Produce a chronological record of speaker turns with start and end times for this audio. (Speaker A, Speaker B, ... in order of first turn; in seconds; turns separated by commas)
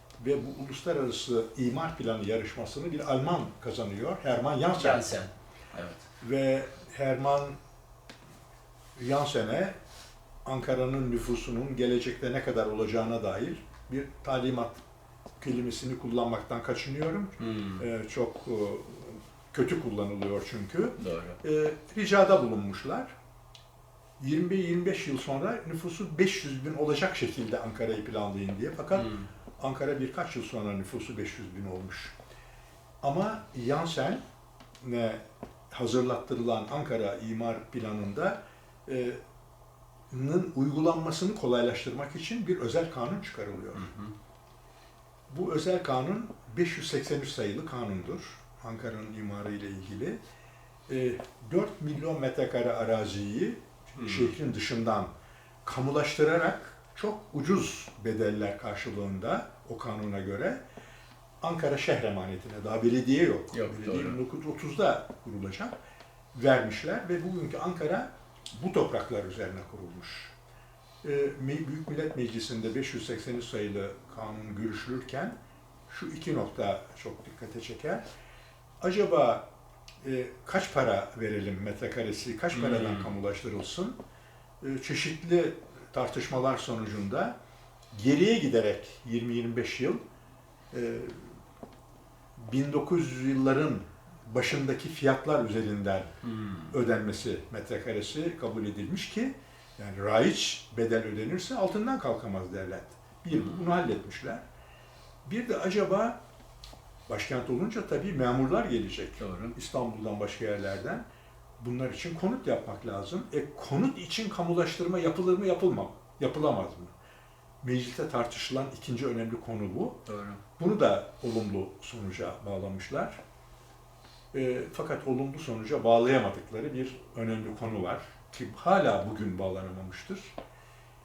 Speaker A: 0.2-5.1, Speaker B: 4.7-6.0, Speaker A: 6.2-7.6, Speaker A: 9.0-9.8, Speaker A: 10.4-14.8, Speaker A: 15.4-23.1, Speaker B: 17.4-17.8, Speaker B: 21.0-21.4, Speaker A: 24.2-32.1, Speaker B: 28.9-29.3, Speaker A: 33.0-34.2, Speaker A: 34.8-39.2, Speaker A: 40.1-43.9, Speaker B: 43.8-44.1, Speaker A: 45.3-50.2, Speaker A: 50.9-55.1, Speaker B: 54.0-54.4, Speaker A: 55.6-60.6, Speaker A: 61.4-65.7, Speaker B: 63.5-64.2, Speaker A: 66.4-70.3, Speaker A: 71.0-75.3, Speaker A: 75.9-78.0, Speaker A: 78.8-79.5, Speaker A: 80.0-84.0, Speaker B: 82.5-83.1, Speaker A: 84.6-87.4, Speaker A: 87.9-90.0, Speaker A: 90.7-91.3, Speaker A: 92.4-96.1, Speaker B: 96.2-96.7, Speaker A: 96.7-104.4, Speaker B: 103.3-103.6, Speaker A: 105.2-106.2, Speaker A: 107.1-111.0, Speaker B: 109.2-109.5, Speaker A: 111.6-116.9, Speaker A: 117.6-120.0, Speaker B: 120.1-120.4, Speaker A: 120.6-123.2, Speaker A: 124.3-130.3